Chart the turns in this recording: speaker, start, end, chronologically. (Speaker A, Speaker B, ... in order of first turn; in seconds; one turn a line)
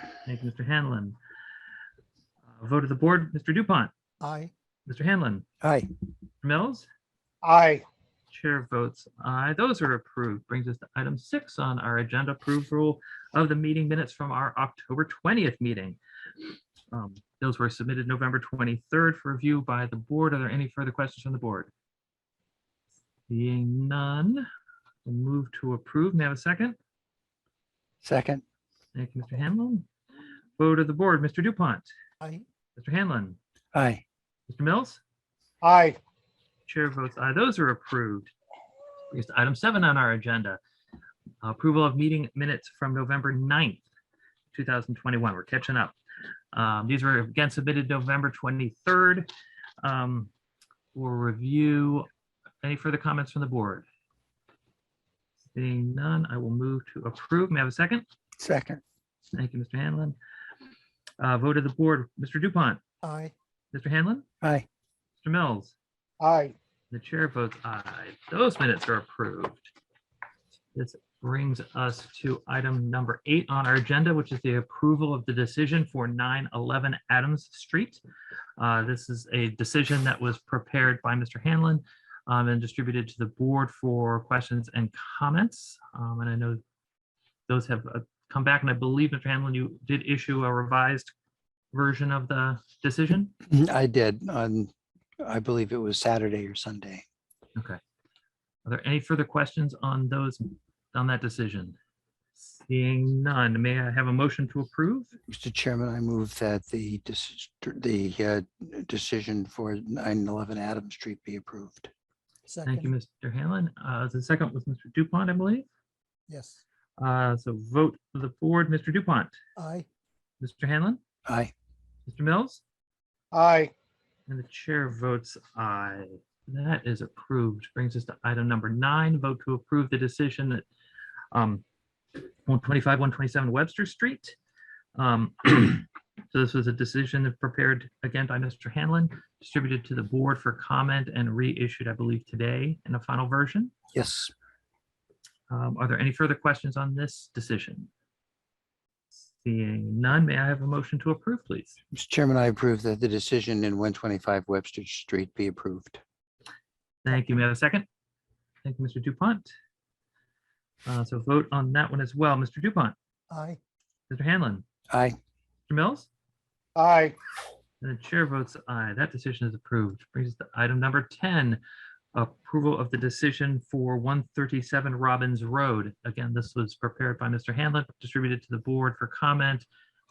Speaker A: 0.2-1.2
Speaker A: 2.5-3.9
Speaker B: 4.2-4.5
Speaker A: 4.9-5.5
Speaker C: 5.6-5.9
Speaker A: 6.4-6.9
Speaker B: 7.4-7.9
Speaker A: 8.3-16.0
Speaker A: 16.9-21.7
Speaker A: 23.3-24.5
Speaker A: 25.1-26.8
Speaker C: 28.0-28.4
Speaker A: 28.9-29.9
Speaker A: 30.6-31.9
Speaker A: 32.8-33.4
Speaker C: 33.7-34.0
Speaker A: 34.5-35.0
Speaker B: 35.6-36.0
Speaker A: 36.7-38.3
Speaker A: 39.1-40.6
Speaker A: 41.4-43.8
Speaker A: 44.5-45.9
Speaker A: 46.5-49.3
Speaker A: 49.8-50.3
Speaker A: 50.9-52.1
Speaker A: 52.6-53.9
Speaker A: 55.5-58.0
Speaker C: 58.4-58.8
Speaker A: 59.3-60.2
Speaker A: 61.2-62.8
Speaker B: 63.0-63.3
Speaker A: 63.7-64.2
Speaker A: 65.2-65.8
Speaker B: 66.2-66.5
Speaker A: 66.9-69.7
Speaker A: 70.8-78.0
Speaker A: 78.6-86.6
Speaker A: 87.5-91.1
Speaker A: 91.7-93.3
Speaker C: 93.5-97.0
Speaker A: 98.7-101.8
Speaker A: 102.4-105.1
Speaker C: 105.3-111.9
Speaker B: 112.5-112.9
Speaker A: 112.7-115.7
Speaker B: 116.3-116.6
Speaker A: 117.0-119.3
Speaker B: 119.6-119.9
Speaker A: 120.4-121.0
Speaker C: 121.3-121.5
Speaker A: 122.1-122.6
Speaker B: 123.3-123.7
Speaker A: 124.3-130.6
Speaker A: 131.3-131.6
Speaker A: 132.5-134.3
Speaker A: 135.0-143.7
Speaker C: 143.9-144.3
Speaker A: 145.5-147.9
Speaker A: 149.1-151.8
Speaker C: 151.9-156.0
Speaker A: 157.0-157.9
Speaker A: 158.6-159.5
Speaker A: 160.9-162.9
Speaker B: 163.3-163.6
Speaker A: 164.1-164.6
Speaker C: 164.9-165.2
Speaker A: 165.7-166.1
Speaker B: 166.8-167.2
Speaker A: 167.8-171.6
Speaker A: 172.1-179.7